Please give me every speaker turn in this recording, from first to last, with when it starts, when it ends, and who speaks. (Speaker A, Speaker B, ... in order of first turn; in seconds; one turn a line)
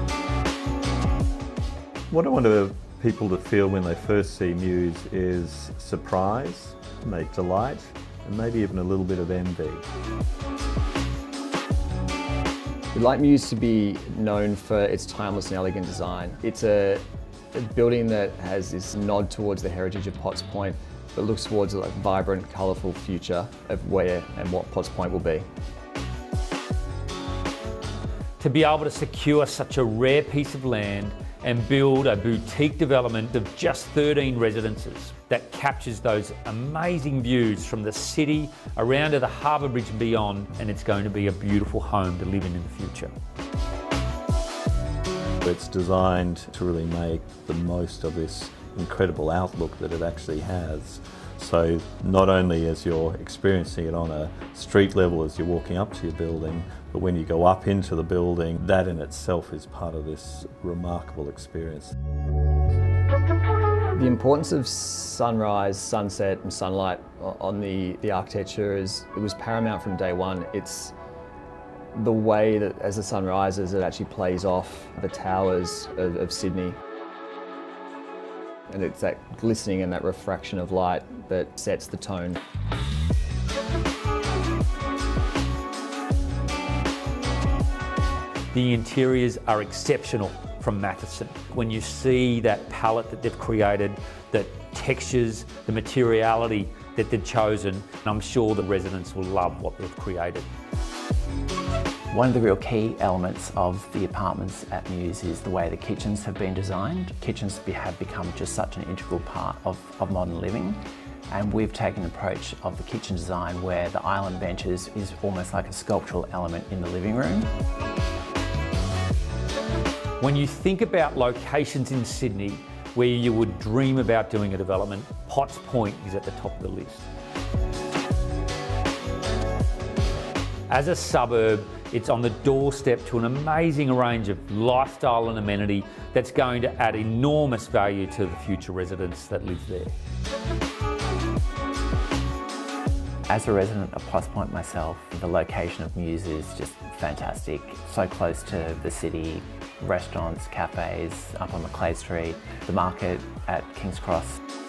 Speaker A: 2.1-9.8
Speaker B: 12.9-25.4
Speaker C: 28.4-43.1
Speaker A: 45.4-61.9
Speaker B: 64.0-70.9
Speaker B: 71.9-76.8
Speaker B: 78.7-82.4
Speaker C: 88.5-100.5
Speaker D: 102.1-117.5
Speaker C: 120.2-127.1
Speaker C: 130.7-139.9
Speaker D: 143.3-154.4